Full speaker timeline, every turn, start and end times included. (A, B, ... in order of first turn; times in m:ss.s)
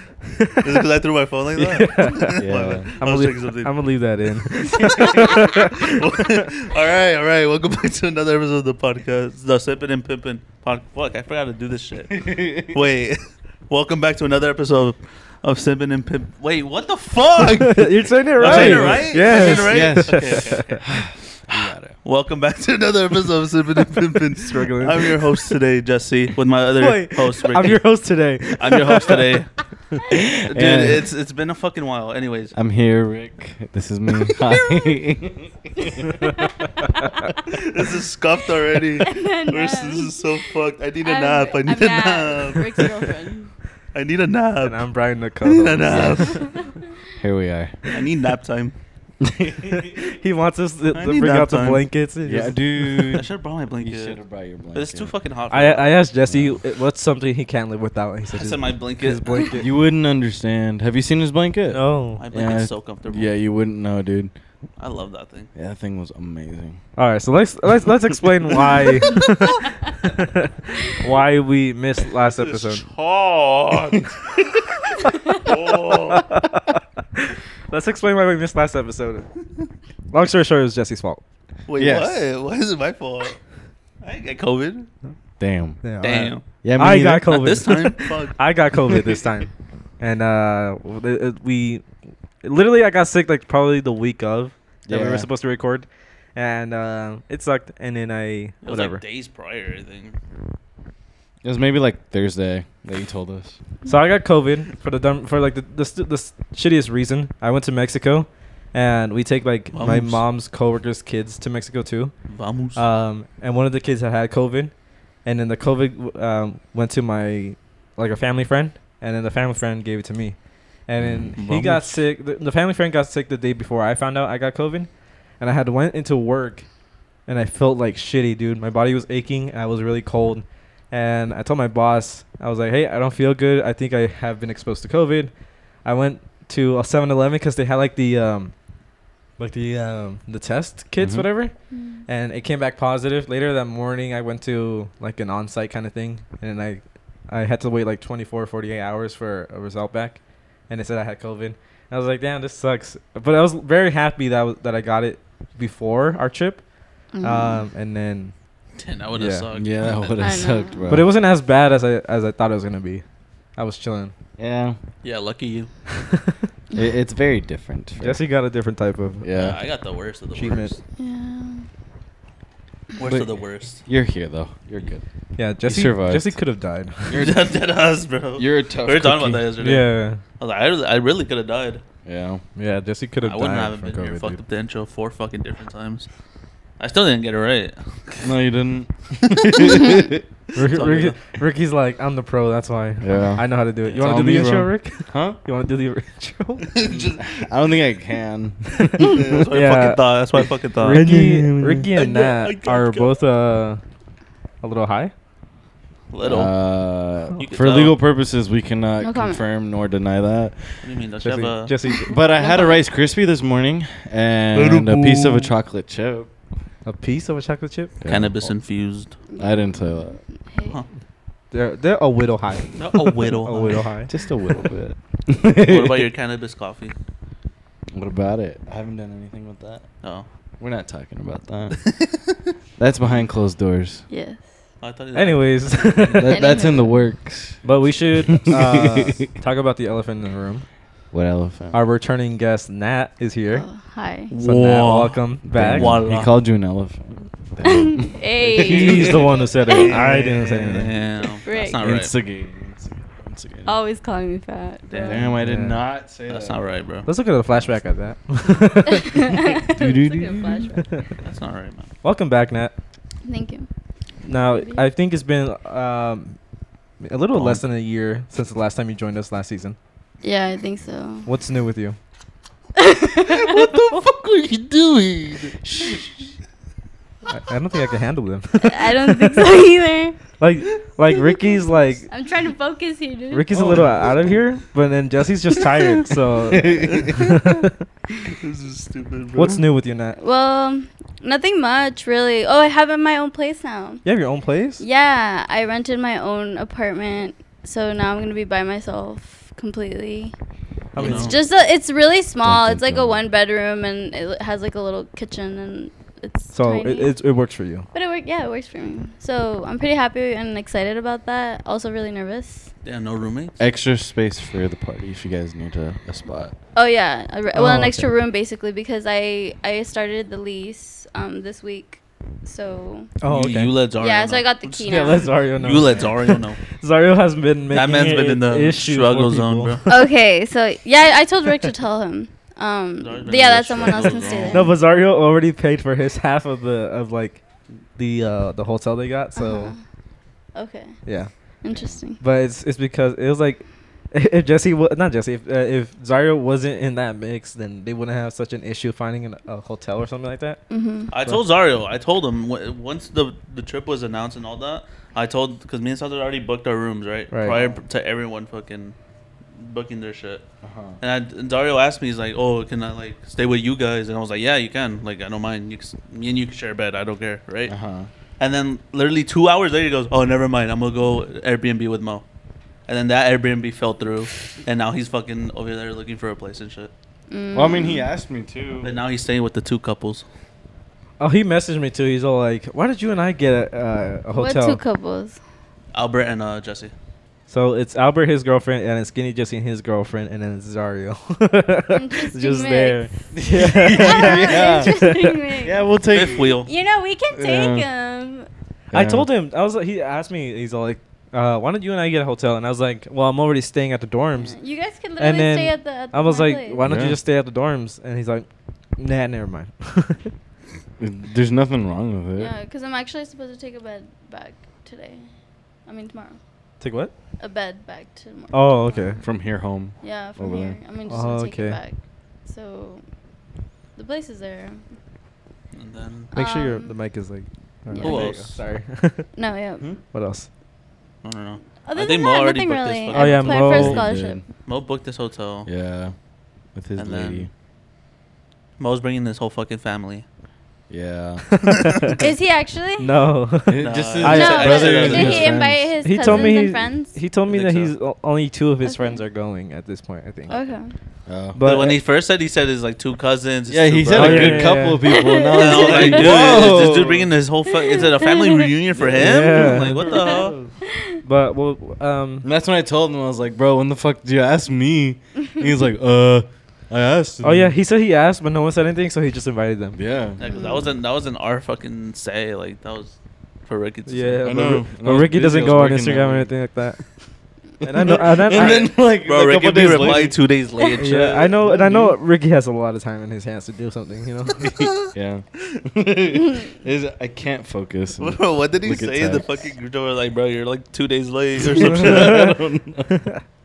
0:00.6-0:03.7 A
0:01.6-0:02.5 B
0:02.4-0:02.9 C
0:03.0-0:06.4 B
0:04.7-0:20.9 A
0:12.1-0:12.7 C
0:17.4-0:20.8 B
0:18.4-0:22.0 C
0:22.0-0:27.8 A
0:24.4-0:25.3 B
0:26.8-0:29.2 B
0:28.6-0:29.5 A
0:30.1-0:31.1 C
0:30.4-0:32.5 A
0:32.5-0:36.0 C
0:34.3-0:34.6 A
0:36.2-0:37.3 D
0:37.5-0:43.1 A
0:39.0-0:40.4 D
0:41.0-0:43.5 D
0:43.9-0:44.8 A
0:44.6-0:46.4 B
0:45.4-0:46.5 A
0:45.9-0:46.4 C
0:46.4-0:46.7 D
0:47.2-0:47.8 C
0:47.9-0:48.7 A
0:49.2-0:50.0 C
0:49.7-0:53.2 B
0:50.9-0:51.8 A
0:52.2-0:55.1 C
0:53.0-0:54.2 A
0:54.7-0:56.0 A
0:55.5-0:59.6 B
0:56.3-0:56.6 C
0:58.3-0:59.6 A
0:59.6-1:04.3 C
1:01.7-1:02.2 B
1:02.2-1:03.3 A
1:04.8-1:05.5 A
1:05.5-1:06.8 C
1:07.0-1:12.8 B
1:12.3-1:14.6 A
1:13.7-1:14.1 C
1:15.0-1:19.2 B
1:15.3-1:16.2 A
1:20.1-1:21.2 B
1:21.7-1:23.4 A
1:21.8-1:22.2 C
1:24.0-1:24.9 A
1:25.4-1:25.8 C
1:25.8-1:31.8 B
1:26.0-1:26.4 A
1:26.6-1:27.4 C
1:27.3-1:29.2 A
1:32.4-1:39.0 B
1:34.8-1:35.3 C
1:38.6-1:40.2 A
1:41.4-1:43.6 C
1:43.8-1:52.1 B
1:49.7-1:50.2 A
1:52.3-1:52.8 A
1:52.7-2:04.9 B
2:01.0-2:01.3 C
2:01.4-2:02.0 A
2:05.4-2:06.7 B
2:07.2-2:18.5 B
2:19.4-2:36.6 B
2:21.0-2:21.3 C
2:21.7-2:22.0 D
2:37.1-2:37.7 D
2:37.2-2:38.3 B
2:38.8-2:40.4 A
2:39.1-2:39.5 B
2:39.5-2:41.1 C
2:40.2-2:40.9 D
2:40.9-2:43.0 B
2:43.6-2:44.1 B
2:44.4-2:44.8 C
2:45.0-2:45.7 A
2:46.0-2:46.3 B
2:46.7-2:48.2 C
2:48.0-2:49.3 B
2:49.2-2:49.6 C
2:49.3-2:50.8 A
2:50.3-2:50.7 B
2:51.0-2:51.6 D
2:53.0-2:53.8 A
2:53.8-2:55.0 C
2:55.4-2:57.3 B
2:55.6-2:56.3 C
2:57.0-2:57.6 C
2:57.1-3:01.8 A
2:58.4-2:59.5 C
2:59.6-3:00.2 B
3:02.0-3:02.4 C
3:02.6-3:04.4 B
3:03.2-3:06.1 A
3:06.8-3:08.3 A
3:08.2-3:10.2 C
3:09.5-3:09.8 A
3:10.5-3:11.2 A
3:10.5-3:16.7 B
3:13.0-3:15.4 C
3:13.8-3:14.2 A
3:16.7-3:17.3 A
3:16.8-3:19.4 C
3:18.8-3:20.0 B
3:19.1-3:21.0 A
3:20.8-3:23.8 B
3:20.9-3:21.9 C
3:22.0-3:23.1 A
3:24.6-3:25.1 B
3:26.1-3:26.5 A
3:26.2-3:30.8 C
3:27.4-3:28.0 A
3:29.0-3:29.4 D
3:30.8-3:31.8 A
3:31.2-3:32.1 B
3:32.1-3:36.3 C
3:32.2-3:32.8 D
3:34.5-3:35.5 A
3:36.8-3:37.9 B
3:38.0-3:38.5 C
3:38.1-3:39.1 A
3:39.3-3:40.8 D
3:39.4-3:40.2 C
3:41.5-3:44.1 B
3:42.8-3:43.8 A
3:44.1-3:46.1 C
3:45.6-3:46.9 A
3:47.9-3:49.9 C
3:50.6-3:51.8 C
3:51.9-3:52.2 A
3:52.8-3:54.0 C
3:54.1-3:54.5 D
3:54.8-3:56.6 A
3:55.1-3:56.4 B
3:56.2-3:57.6 C
3:56.3-3:57.0 D
3:57.6-4:00.6 B
3:57.7-3:58.4 A
3:58.2-3:59.3 C
4:01.1-4:01.8 C
4:01.7-4:03.6 B
4:03.5-4:04.3 D
4:04.3-4:06.4 A
4:04.3-4:06.0 B
4:05.5-4:09.4 C
4:07.6-4:10.2 D
4:08.4-4:11.0 B
4:09.6-4:12.1 A
4:11.4-4:11.8 D
4:11.7-4:13.8 C
4:13.6-4:15.3 D
4:14.9-4:15.3 A
4:15.0-4:16.7 C
4:15.4-4:15.8 B
4:16.3-4:17.1 A
4:17.0-4:19.4 B
4:19.0-4:20.8 D
4:19.7-4:20.8 C
4:21.2-4:21.9 A
4:22.0-4:22.7 B
4:23.2-4:23.7 D
4:24.2-4:26.4 B
4:24.3-4:24.9 D
4:27.0-4:29.8 B
4:27.3-4:27.6 A
4:30.2-4:31.3 D
4:31.2-4:32.0 B
4:32.8-4:33.8 D
4:33.1-4:36.0 A
4:37.3-4:39.4 B
4:38.6-4:40.2 D
4:40.4-4:42.1 B
4:42.1-4:43.5 D
4:43.3-4:47.8 B
4:43.5-4:44.1 C
4:46.5-4:47.2 C
4:46.9-4:47.3 A
4:48.2-4:49.6 A
4:49.4-4:50.2 B
4:50.2-4:54.0 D
4:54.0-4:54.8 B
4:54.8-5:00.3 D
5:00.9-5:01.3 B
5:01.0-5:01.3 A
5:01.0-5:07.1 D
5:02.4-5:03.2 C
5:06.5-5:07.9 B
5:07.9-5:12.7 D
5:12.8-5:13.6 A
5:13.6-5:16.5 C
5:16.7-5:23.1 D
5:17.5-5:18.0 B
5:23.2-5:23.8 B
5:23.3-5:26.6 A
5:24.0-5:25.3 D
5:24.9-5:30.0 B
5:27.7-5:29.8 A
5:29.9-5:34.8 D
5:33.0-5:34.7 A
5:34.5-5:37.4 B
5:38.0-5:39.7 B
5:39.4-5:39.8 D
5:40.5-5:41.0 D
5:41.0-5:41.3 B
5:41.6-5:42.2 D
5:42.2-5:50.6 B
5:50.7-5:51.1 D
5:51.1-5:58.9 A
5:57.3-5:57.6 B
5:59.6-6:00.4 A
6:00.6-6:01.0 C
6:01.0-6:07.7 A
6:07.7-6:08.1 C
6:08.4-6:12.2 A
6:12.9-6:16.9 A
6:17.3-6:18.0 D
6:17.5-6:18.9 C
6:18.8-6:20.2 A
6:21.2-6:24.8 B
6:24.3-6:25.4 D
6:25.9-6:26.9 A
6:27.5-6:35.3 B
6:31.9-6:33.1 D
6:33.3-6:35.1 C
6:33.7-6:38.5 D
6:35.6-6:36.5 C
6:36.0-6:36.7 A
6:37.3-6:37.9 C
6:38.9-6:39.3 C
6:38.9-6:44.6 B
6:44.4-6:46.8 D
6:45.2-6:48.5 B
6:46.8-6:47.2 C
6:49.0-6:50.3 B
6:51.0-6:52.5 C
6:52.4-6:55.3 D
6:55.8-6:56.4 D
6:56.8-6:57.1 B
6:57.4-6:59.2 D
6:58.5-6:59.2 B
6:59.2-7:00.8 C
7:00.0-7:03.0 D
7:01.1-7:01.8 B
7:04.0-7:04.8 D
7:05.7-7:06.3 A
7:06.3-7:06.9 D
7:06.3-7:09.3 B
7:07.9-7:08.4 D
7:08.0-7:08.6 A
7:09.3-7:09.8 D
7:10.1-7:10.5 B
7:11.2-7:13.9 A
7:11.8-7:14.4 D
7:13.1-7:14.0 B
7:13.7-7:14.4 C
7:14.6-7:15.7 A
7:15.6-7:16.1 C
7:16.7-7:17.5 C
7:17.0-7:17.5 A
7:18.8-7:20.2 A
7:20.9-7:21.5 C
7:21.6-7:22.2 B
7:22.1-7:23.1 D
7:23.0-7:24.8 B
7:23.7-7:26.6 C
7:23.8-7:25.6 A
7:24.2-7:27.2 D
7:26.0-7:30.6 B
7:27.5-7:27.9 A
7:28.8-7:29.2 D
7:30.5-7:30.9 D
7:31.2-7:31.6 C
7:31.5-7:32.0 B
7:31.6-7:34.8 A
7:33.7-7:37.3 C
7:34.1-7:35.0 B
7:35.0-7:36.8 D
7:35.4-7:40.5 A
7:37.7-7:38.7 D
7:38.9-7:40.7 C
7:39.2-7:40.2 B
7:39.6-7:40.4 D
7:41.2-7:42.5 B
7:42.4-7:47.7 C
7:47.4-7:50.0 B
7:49.9-7:50.4 C
7:50.4-7:53.2 A
7:50.4-7:50.9 D
7:53.7-7:54.5 A
7:54.1-7:57.1 B
7:54.4-7:56.5 C
7:57.8-8:02.1 C
7:57.8-7:58.8 B
7:58.5-8:01.5 A
8:01.0-8:04.6 B
8:04.6-8:05.1 A
8:04.9-8:09.7 C
8:08.2-8:12.5 A
8:11.6-8:13.2 C
8:11.9-8:12.5 B